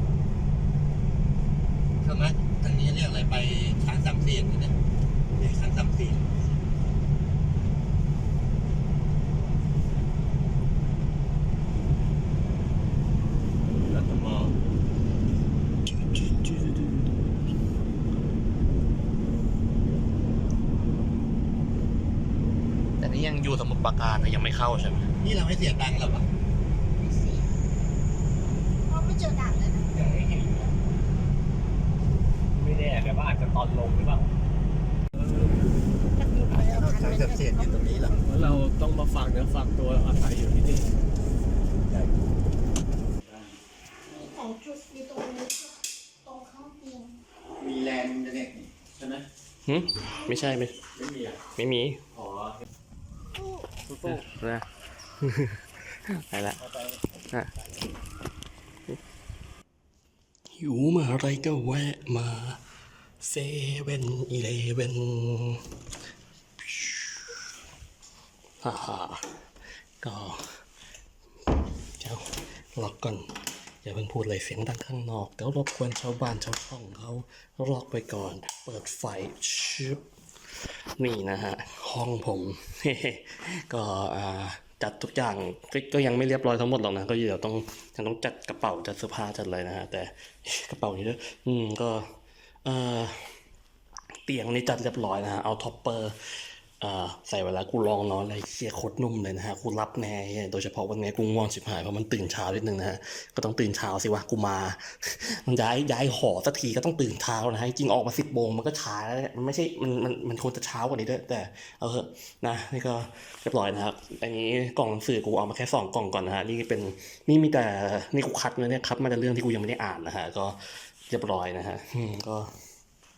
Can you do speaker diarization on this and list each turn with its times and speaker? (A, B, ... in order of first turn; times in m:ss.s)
0:02.0-0:04.8 A
0:05.3-0:06.5 A
0:13.9-0:14.5 A
0:15.9-0:17.1 B
0:23.0-0:25.1 B
0:25.2-0:26.3 A
0:27.0-0:27.6 C
0:28.9-0:29.9 C
0:29.9-0:30.7 D
0:32.5-0:34.3 D
0:35.2-0:35.7 D
0:36.2-0:38.3 C
0:36.5-0:38.2 A
0:38.3-0:40.9 D
0:43.2-0:43.5 D
0:44.1-0:47.2 C
0:49.0-0:49.2 D
0:49.6-0:50.8 B
0:51.0-0:51.3 D
0:51.5-0:52.1 B
0:52.2-0:52.5 D
0:53.3-0:53.7 C
0:53.9-0:54.3 D
0:54.0-0:54.7 B
0:55.2-0:56.6 B
0:56.6-0:57.0 D
1:00.5-1:02.6 B
1:03.2-1:05.7 B
1:06.6-1:07.4 B
1:08.6-1:09.4 B
1:10.0-1:10.6 B
1:12.0-1:20.0 B
1:21.0-1:33.4 B
1:34.3-2:02.5 B